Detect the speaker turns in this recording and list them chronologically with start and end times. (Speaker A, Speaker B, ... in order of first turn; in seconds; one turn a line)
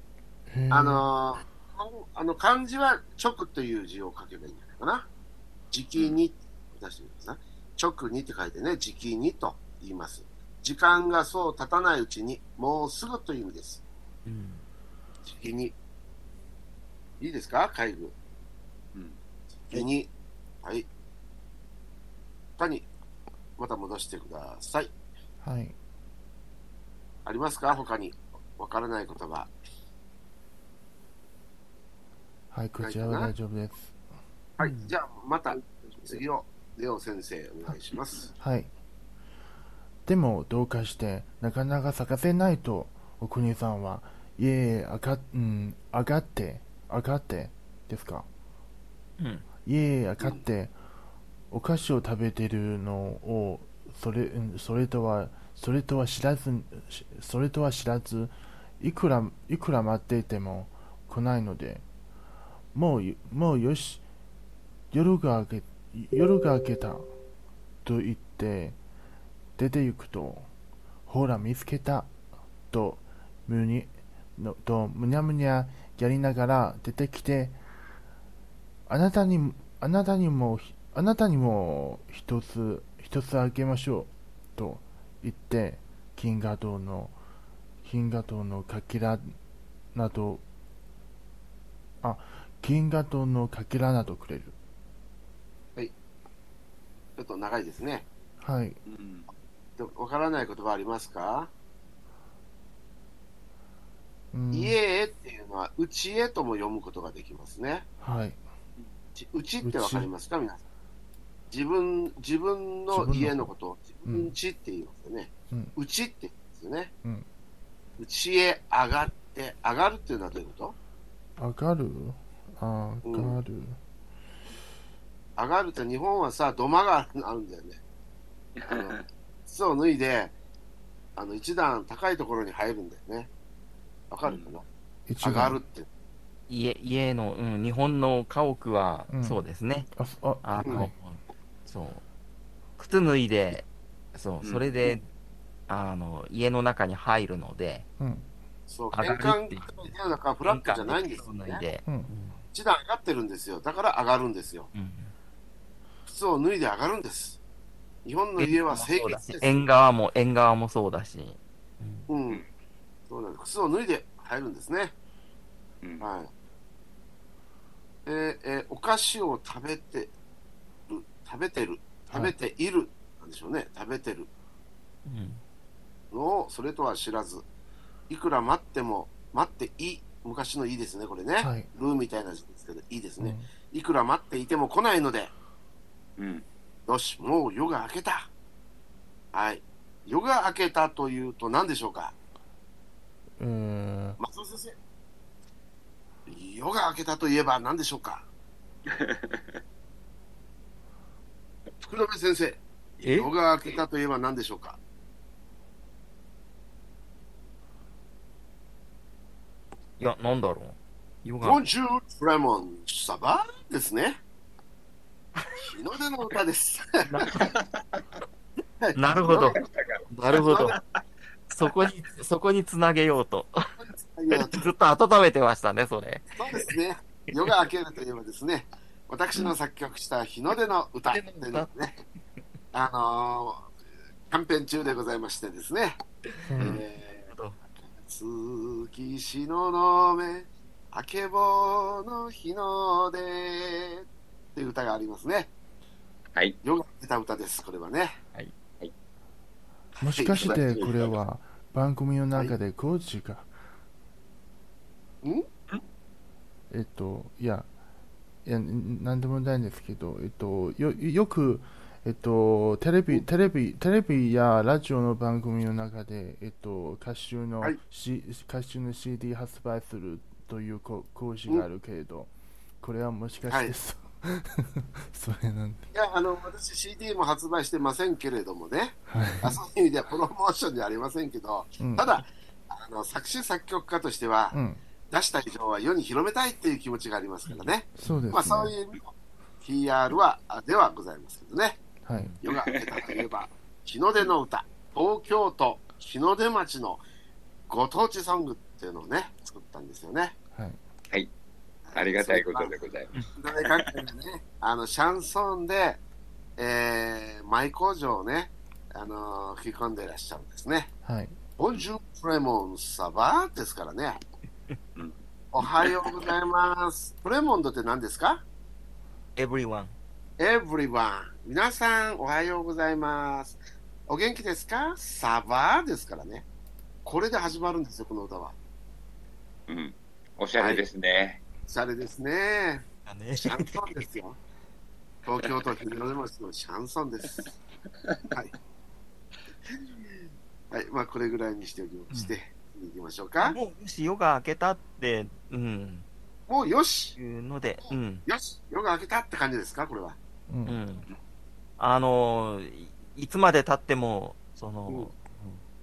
Speaker A: 0.5-1.1
Speaker B: 0.7-5.1
Speaker B: 5.7-13.8
Speaker C: 14.2-14.6
Speaker B: 15.2-15.7
Speaker B: 17.2-18.1
Speaker B: 19.7-20.1
Speaker B: 22.6-22.9
Speaker B: 23.6-24.9
Speaker A: 25.4-25.7
Speaker B: 27.2-29.5
Speaker A: 32.5-34.0
Speaker B: 32.8-33.3
Speaker B: 34.6-38.3
Speaker C: 34.6-34.9
Speaker A: 38.4-38.7
Speaker A: 40.0-48.3
Speaker C: 49.2-49.4
Speaker A: 49.6-50.7
Speaker A: 51.5-61.8
Speaker A: 62.7-64.0
Speaker A: 64.9-67.1
Speaker A: 67.8-68.8
Speaker A: 69.6-70.5
Speaker A: 71.1-72.1
Speaker A: 72.7-77.6
Speaker A: 78.9-87.2
Speaker A: 87.8-89.3
Speaker A: 89.9-90.4
Speaker A: 92.0-94.5
Speaker B: 97.2-98.0
Speaker A: 98.4-98.8
Speaker D: 98.8-99.3
Speaker B: 99.8-101.5
Speaker A: 104.3-104.8
Speaker B: 104.5-107.9
Speaker A: 108.0-108.4
Speaker B: 109.2-110.6
Speaker A: 109.6-110.1
Speaker B: 111.5-116.9
Speaker A: 112.9-113.5
Speaker A: 114.0-114.3
Speaker B: 118.0-120.7
Speaker A: 121.4-123.8
Speaker B: 123.0-123.4
Speaker B: 125.4-127.8
Speaker D: 128.6-129.0
Speaker B: 128.7-130.3
Speaker B: 131.2-133.3
Speaker B: 134.1-134.7
Speaker D: 134.2-134.5
Speaker A: 135.1-135.6
Speaker B: 135.2-135.9
Speaker C: 136.5-139.9
Speaker A: 139.1-139.4
Speaker A: 139.9-140.9
Speaker C: 140.4-142.0
Speaker B: 140.6-140.8
Speaker C: 142.8-145.0
Speaker D: 144.4-144.7
Speaker C: 145.7-147.8
Speaker A: 148.0-148.2
Speaker B: 148.7-151.6
Speaker C: 148.9-152.4
Speaker B: 152.5-154.7
Speaker C: 154.7-155.1
Speaker B: 156.1-157.4
Speaker B: 158.0-159.6
Speaker C: 158.4-162.1
Speaker B: 162.1-162.4
Speaker B: 163.1-164.9
Speaker B: 166.0-166.3
Speaker B: 168.1-170.1
Speaker B: 170.9-174.3
Speaker A: 172.1-172.3
Speaker C: 175.0-175.4
Speaker B: 176.1-177.4
Speaker B: 178.1-185.3
Speaker A: 181.4-181.7
Speaker A: 183.2-183.5
Speaker D: 186.2-186.4
Speaker B: 186.9-188.3
Speaker B: 189.3-192.1
Speaker A: 193.4-194.2
Speaker B: 194.2-194.8
Speaker B: 196.3-198.3
Speaker D: 198.8-199.6
Speaker B: 201.8-204.8
Speaker C: 203.0-203.3
Speaker C: 210.0-211.6
Speaker B: 211.4-214.2
Speaker B: 215.7-217.3
Speaker C: 217.1-217.4
Speaker D: 217.4-218.0
Speaker B: 218.8-219.7
Speaker C: 218.9-219.6
Speaker D: 219.3-220.0
Speaker C: 220.1-220.8
Speaker B: 220.4-220.8
Speaker C: 221.5-223.5
Speaker B: 223.8-224.7
Speaker C: 224.3-226.4
Speaker B: 226.4-231.9
Speaker C: 231.1-231.7
Speaker B: 232.7-233.7
Speaker B: 234.3-236.0
Speaker A: 236.4-236.8
Speaker C: 236.6-237.6
Speaker B: 236.6-237.3
Speaker B: 237.9-244.0
Speaker B: 244.5-245.5
Speaker B: 246.6-248.2
Speaker B: 250.0-251.1
Speaker A: 250.0-253.5
Speaker A: 256.7-257.7
Speaker A: 258.4-275.9
Speaker B: 273.5-273.7
Speaker B: 275.9-284.6
Speaker A: 279.1-279.6
Speaker A: 281.8-282.2
Speaker A: 284.5-284.8
Speaker B: 285.1-291.8
Speaker C: 287.5-288.2
Speaker A: 287.9-288.7
Speaker A: 292.0-292.3
Speaker C: 292.1-292.4
Speaker B: 292.4-297.0
Speaker B: 297.7-300.4
Speaker A: 300.5-300.8
Speaker B: 301.9-302.7
Speaker D: 301.9-303.6
Speaker B: 303.3-306.0
Speaker B: 306.6-310.9
Speaker A: 311.0-311.4
Speaker B: 311.6-314.2
Speaker D: 314.9-316.3
Speaker B: 315.5-318.4
Speaker C: 319.4-319.9
Speaker B: 320.4-326.4
Speaker B: 327.0-328.5
Speaker D: 329.7-331.4
Speaker B: 331.7-332.8
Speaker C: 333.1-333.8
Speaker B: 333.4-334.4
Speaker B: 335.2-337.5
Speaker B: 339.7-343.6
Speaker C: 342.1-342.4
Speaker C: 343.4-346.0
Speaker B: 346.5-347.1
Speaker C: 347.1-348.2
Speaker B: 347.9-350.2
Speaker A: 350.5-350.8
Speaker C: 350.6-351.0
Speaker C: 351.8-355.6